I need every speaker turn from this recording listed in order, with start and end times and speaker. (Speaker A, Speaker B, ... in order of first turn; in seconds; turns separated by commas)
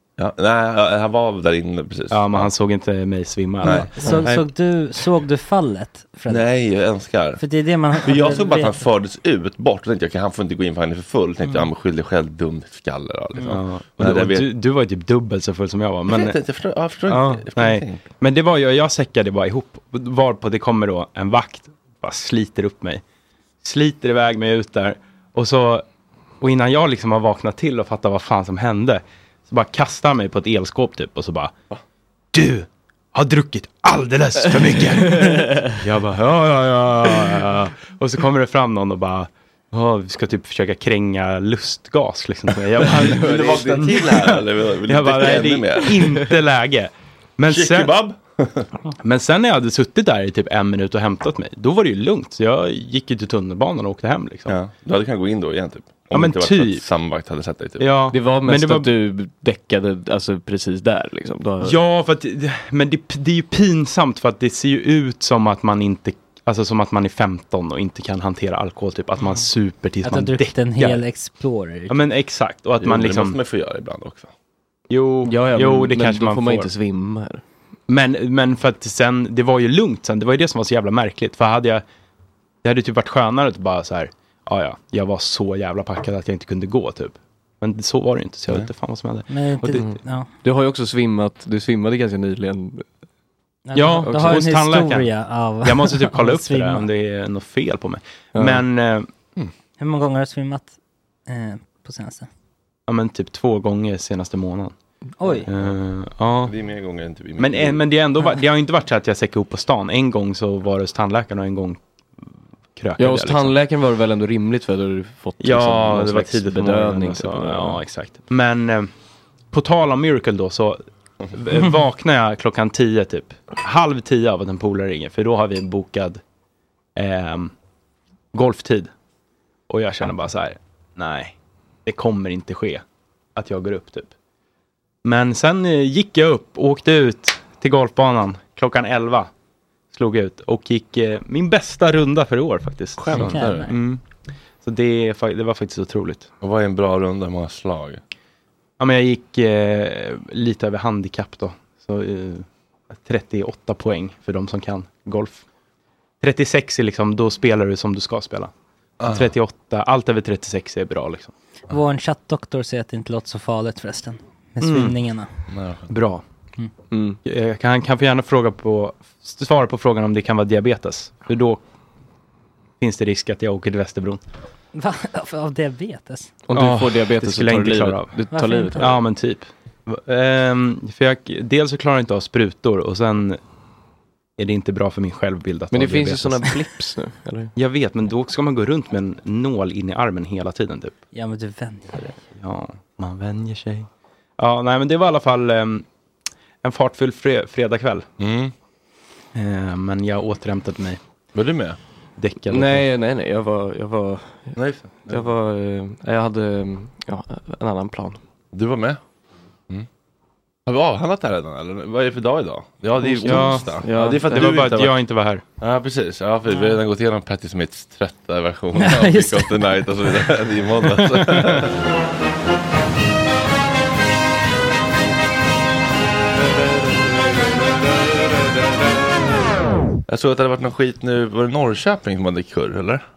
Speaker A: 0.2-2.5, Speaker B: 2.1-4.5, Speaker A: 3.6-4.2, Speaker C: 3.6-6.4, Speaker A: 6.3-7.4, Speaker C: 7.4-8.8, Speaker A: 8.0-14.5, Speaker B: 13.5-16.4, Speaker A: 16.1-18.0, Speaker B: 17.1-23.0, Speaker B: 23.6-25.8, Speaker B: 26.4-31.5, Speaker B: 32.3-48.0, Speaker D: 35.2-35.7, Speaker A: 42.8-46.2, Speaker A: 47.5-48.7, Speaker B: 49.0-54.5, Speaker A: 54.5-57.9, Speaker B: 56.1-56.8, Speaker B: 57.8-58.9, Speaker D: 58.1-61.8, Speaker B: 61.6-71.0, Speaker C: 70.0-71.9, Speaker B: 71.9-73.4, Speaker A: 72.8-74.3, Speaker B: 74.9-76.7, Speaker D: 75.2-77.4, Speaker B: 77.9-81.8, Speaker B: 82.6-89.8, Speaker C: 89.3-90.3, Speaker D: 89.8-92.9, Speaker C: 93.7-96.9, Speaker B: 93.7-95.1, Speaker D: 94.1-94.4, Speaker B: 95.6-99.1, Speaker D: 98.3-98.6, Speaker C: 99.8-100.7, Speaker C: 101.3-102.3, Speaker B: 102.9-104.7, Speaker C: 105.2-105.5, Speaker B: 105.5-106.5, Speaker A: 106.4-107.8, Speaker B: 107.4-111.8, Speaker B: 112.8-113.6, Speaker D: 113.0-117.8, Speaker B: 115.4-118.9, Speaker B: 119.5-120.8, Speaker B: 121.3-126.2, Speaker B: 127.0-127.5, Speaker B: 128.3-128.9, Speaker B: 129.7-131.3, Speaker B: 131.8-132.8, Speaker B: 133.3-134.1, Speaker B: 135.0-139.3, Speaker B: 139.9-144.0, Speaker A: 143.0-143.7, Speaker C: 143.1-143.8, Speaker B: 144.6-146.3, Speaker A: 146.4-148.0, Speaker B: 148.8-155.4, Speaker B: 156.2-158.5, Speaker A: 159.0-159.3, Speaker B: 159.1-161.3, Speaker C: 161.7-165.3, Speaker B: 164.6-164.9, Speaker A: 165.5-165.9, Speaker B: 165.9-166.2, Speaker D: 166.9-167.2, Speaker B: 167.2-171.6, Speaker B: 172.8-174.2, Speaker C: 174.7-176.3, Speaker D: 176.5-178.9, Speaker B: 176.5-178.2, Speaker C: 178.3-178.9, Speaker B: 178.7-183.4, Speaker B: 184.4-186.6, Speaker D: 185.7-187.5, Speaker B: 187.5-191.0, Speaker C: 191.1-192.2, Speaker B: 192.3-195.8, Speaker B: 196.6-198.1, Speaker A: 198.2-198.5, Speaker B: 199.3-201.0, Speaker A: 201.3-201.8, Speaker B: 202.2-202.9, Speaker D: 202.5-208.2, Speaker A: 204.6-205.2, Speaker A: 208.5-209.0, Speaker A: 210.7-214.9, Speaker B: 213.0-215.4, Speaker D: 213.8-214.6, Speaker A: 215.6-221.8, Speaker C: 218.8-219.7, Speaker B: 221.2-221.6, Speaker A: 230.1-233.0